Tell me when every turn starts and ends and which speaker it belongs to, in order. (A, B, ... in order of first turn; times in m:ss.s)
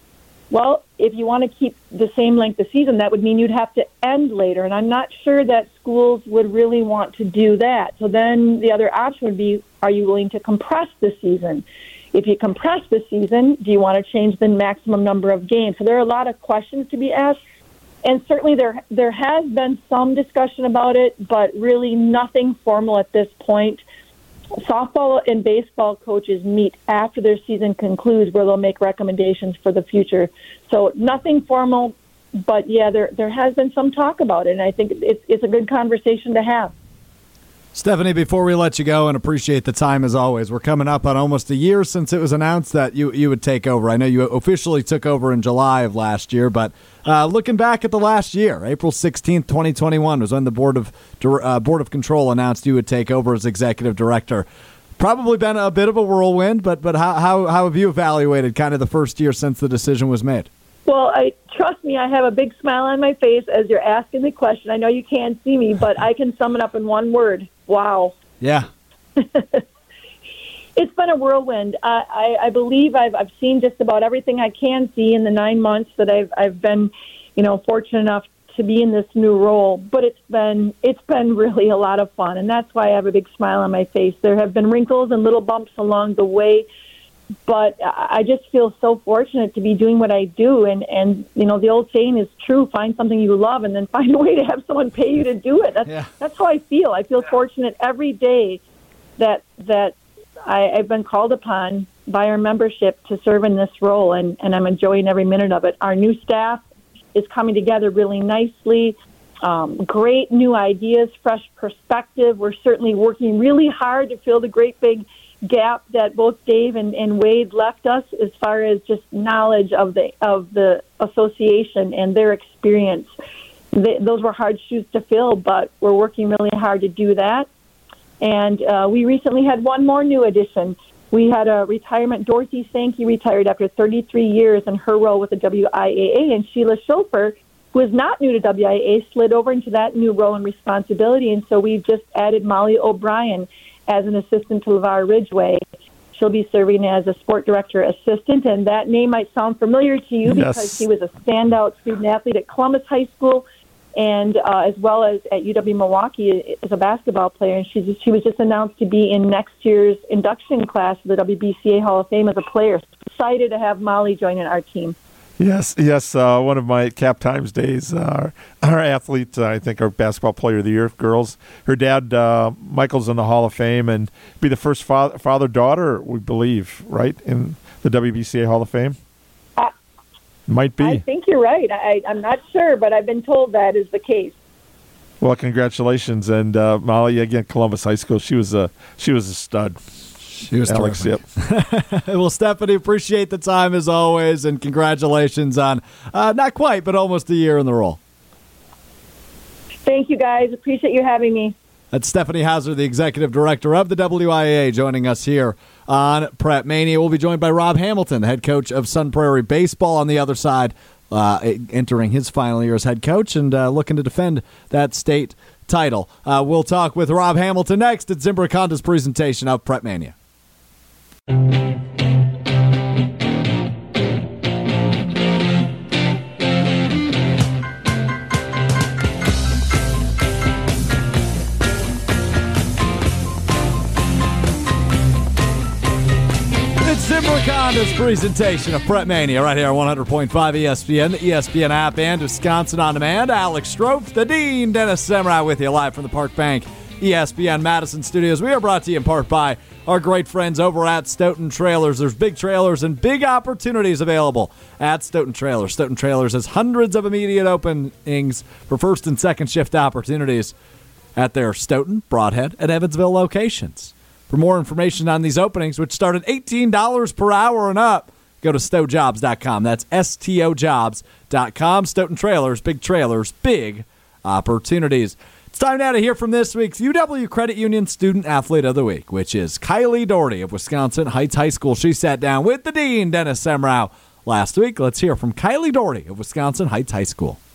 0:00.5-0:17.4 A
0:18.0-0:23.8 A
0:24.6-0:36.7 A
0:37.7-0:54.5 B
0:55.0-1:00.5 B
1:00.9-1:08.1 A
1:08.4-1:08.7 B
1:09.2-1:09.6 A
1:10.8-1:26.6 A
1:27.5-1:38.6 A
1:39.2-2:03.1 A
2:03.7-2:07.5 A
2:08.2-2:25.6 A
2:26.1-2:33.4 A
2:30.2-2:30.8 C
2:34.0-2:45.0 A
2:45.4-2:59.0 C
3:00.5-3:01.0 C
3:00.8-3:04.3 A
3:05.2-3:09.8 C
3:10.3-3:18.0 B
3:10.6-3:11.2 C
3:19.8-3:21.5 A
3:21.9-3:40.1 B
3:56.8-4:20.5 B
4:21.2-4:47.4 B